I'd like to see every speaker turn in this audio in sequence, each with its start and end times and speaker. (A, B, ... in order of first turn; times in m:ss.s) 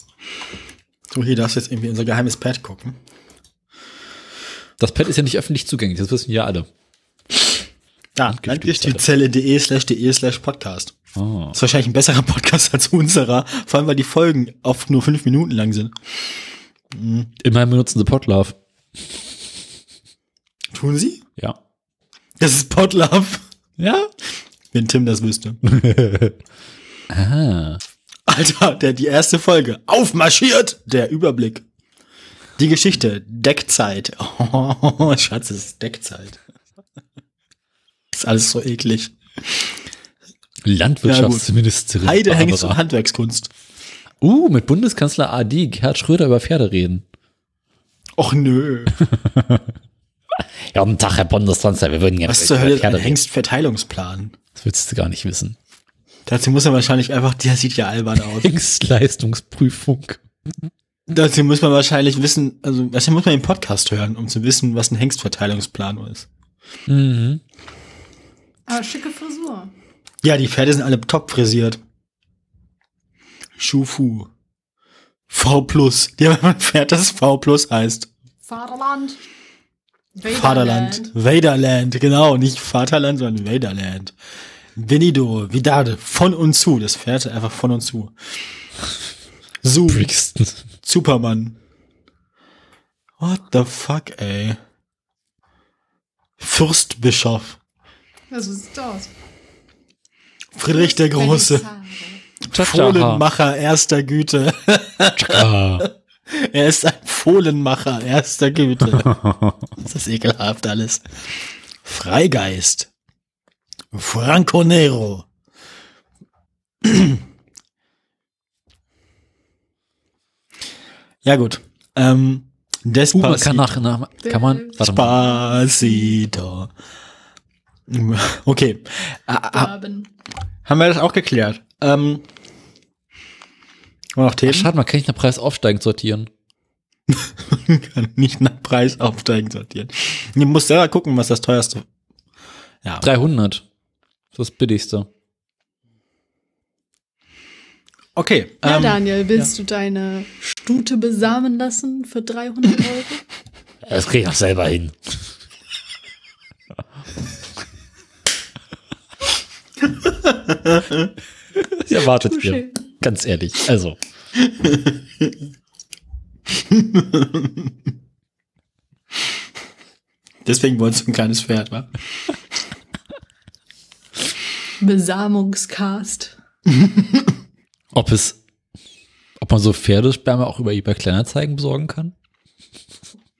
0:01.1-0:03.0 A
0:04.8-0:06.7 B
0:08.2-0:10.9 A
0:08.3-0:09.0 B
0:11.1-0:11.5 B
0:11.5-0:15.9 A
0:16.9-0:17.3 A
0:17.4-0:18.6 B
0:20.7-0:21.2 A
0:22.4-0:23.4 A
0:23.8-0:24.1 B
0:24.7-0:25.6 A
0:25.6-0:26.4 B
0:27.1-0:27.8 B
0:28.3-0:31.6 A
0:32.6-0:36.4 A
0:38.1-0:39.1 A
0:40.6-0:42.8 B
0:41.0-0:41.5 A
0:42.0-0:43.5 A
0:44.2-0:47.0 B
0:48.2-0:48.9 A
0:49.1-0:49.7 B
0:50.4-0:53.2 B
0:52.3-0:54.3 A
0:54.5-0:55.6 B
0:56.3-0:58.5 A
0:58.4-1:00.2 B
1:01.1-1:06.3 A
1:06.9-1:07.4 B
1:08.7-1:09.7 C
1:10.2-1:11.8 A
1:13.6-1:14.3 A
1:15.3-1:18.1 A
1:18.4-1:19.2 C
1:20.2-1:21.1 C
1:20.3-1:24.1 A
1:24.8-1:28.1 A
1:29.6-1:30.1 A
1:29.9-1:30.6 B
1:30.8-1:31.6 A
1:33.2-1:34.6 A
1:36.4-1:37.6 A
1:38.3-1:39.1 C
1:40.6-1:41.6 A
1:40.7-1:42.2 C
1:42.5-1:49.2 A
1:42.5-1:43.2 B
1:45.2-1:45.8 B
1:49.0-1:49.5 B
1:49.8-1:51.0 A
1:51.8-1:52.9 A
1:53.9-1:55.2 A
1:56.8-1:57.2 A
2:01.2-2:03.8 A
2:03.1-2:05.2 B
2:04.2-2:06.1 C
2:04.8-2:06.7 A
2:07.9-2:09.7 A
2:09.5-2:10.1 C
2:10.6-2:12.2 A
2:14.2-2:14.7 A
2:14.4-2:16.3 B
2:17.1-2:21.8 A
2:23.0-2:23.6 B
2:24.3-2:25.1 B
2:28.2-2:29.0 A
2:28.6-2:33.2 C
2:33.8-2:34.9 B
2:40.0-2:41.1 A
2:41.5-2:44.0 B
2:42.1-2:42.8 C
2:44.4-2:45.3 A
2:46.6-2:47.7 A
2:50.4-2:51.9 A
2:54.8-2:56.3 C
2:56.7-2:57.3 A
2:57.9-2:58.4 B
2:59.4-3:02.1 B